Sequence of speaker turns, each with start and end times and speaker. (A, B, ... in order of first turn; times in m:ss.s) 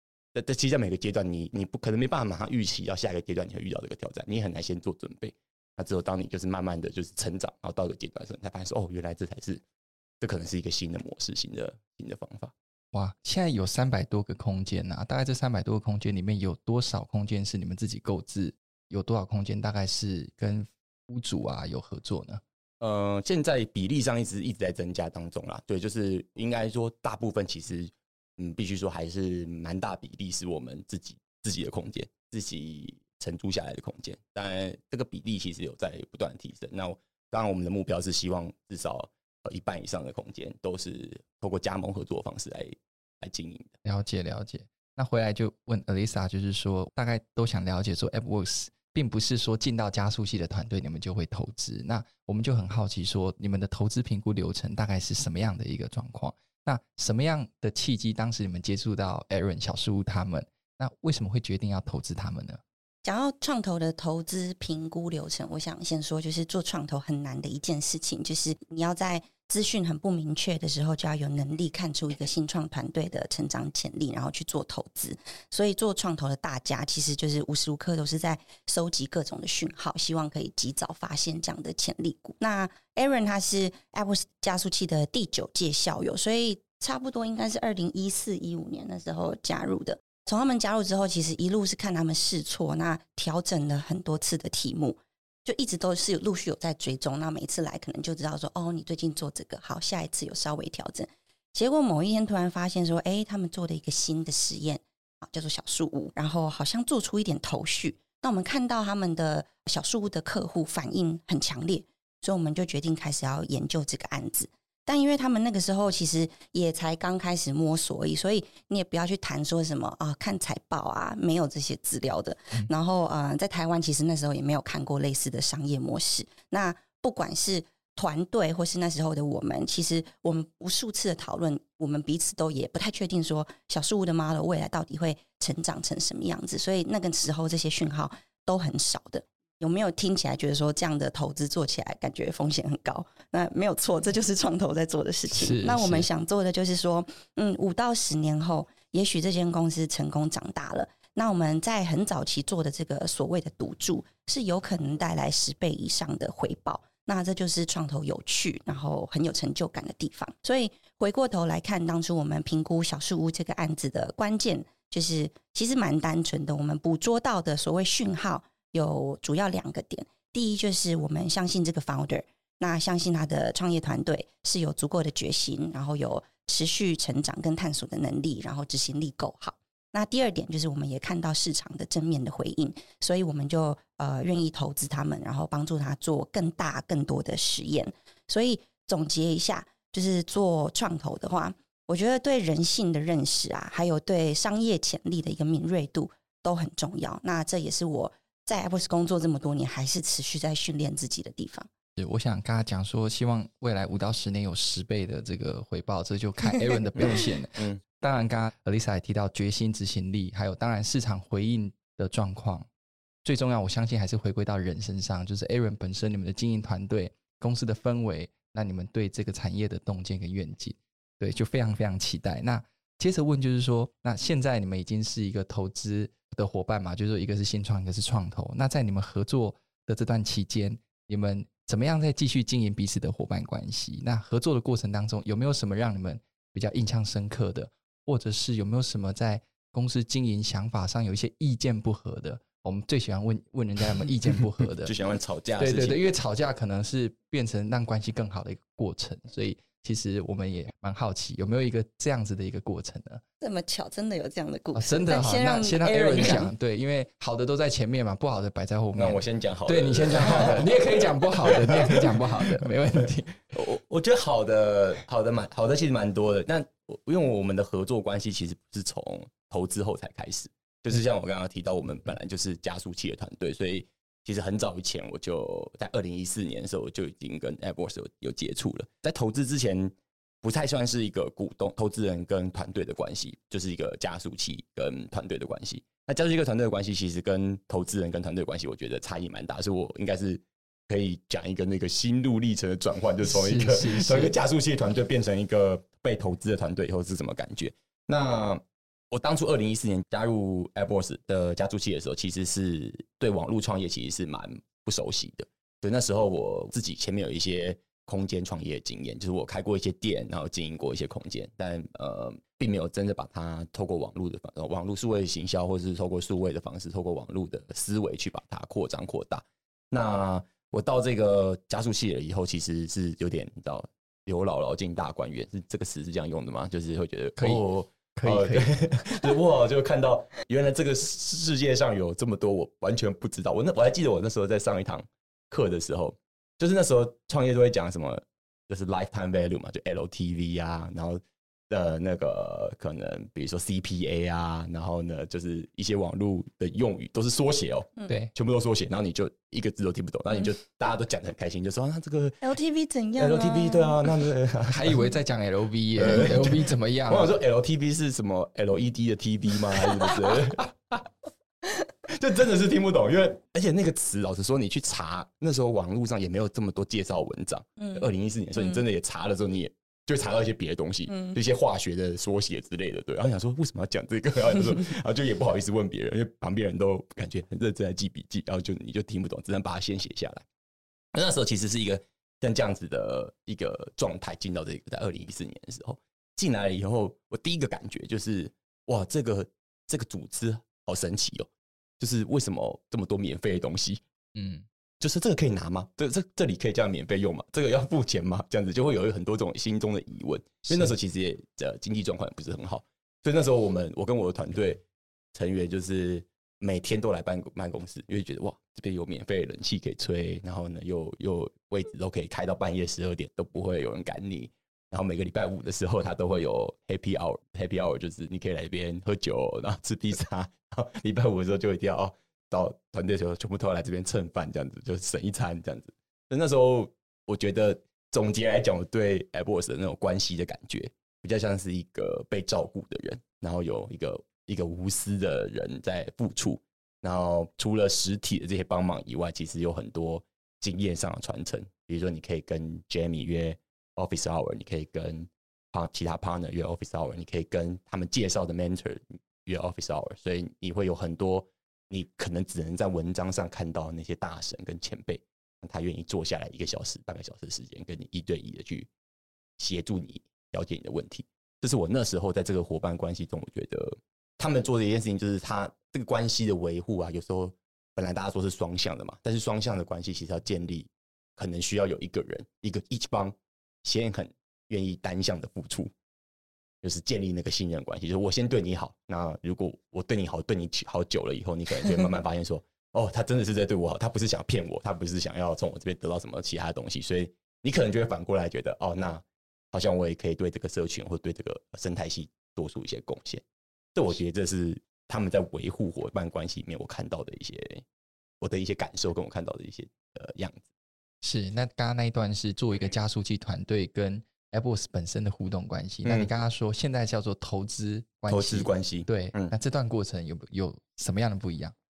0:00.3-0:09.6 A
0:10.2-0:12.5 A
0:12.9-0:22.4 B
0:22.8-0:43.8 A
0:43.8-1:02.6 B
1:03.0-3:21.7 C
2:25.3-2:26.1 B
3:22.0-3:32.7 B
3:27.0-3:27.8 A
3:33.2-4:04.9 B
4:04.8-4:06.1 A
4:05.6-4:13.2 B
4:13.4-4:16.5 C
4:14.7-4:23.5 B
4:18.9-4:22.7 A
4:23.5-5:52.4 A
4:53.2-4:54.3 B
5:27.4-5:27.6 B
5:28.1-5:28.8 B
5:52.4-5:54.1 C
5:53.2-5:55.0 A
5:54.7-5:57.3 B
5:56.0-6:01.1 A
6:02.1-6:20.4 A
6:07.8-6:08.0 C
6:21.1-6:31.5 A
6:32.0-6:34.0 A
6:34.4-6:34.6 B
6:35.0-6:44.8 A
6:45.3-7:38.9 A
7:39.6-7:55.9 A
7:56.8-8:13.4 A
8:13.9-8:17.8 A
8:18.4-8:20.7 A
8:21.2-8:31.7 B
8:26.0-8:26.3 A
8:28.3-8:29.5 A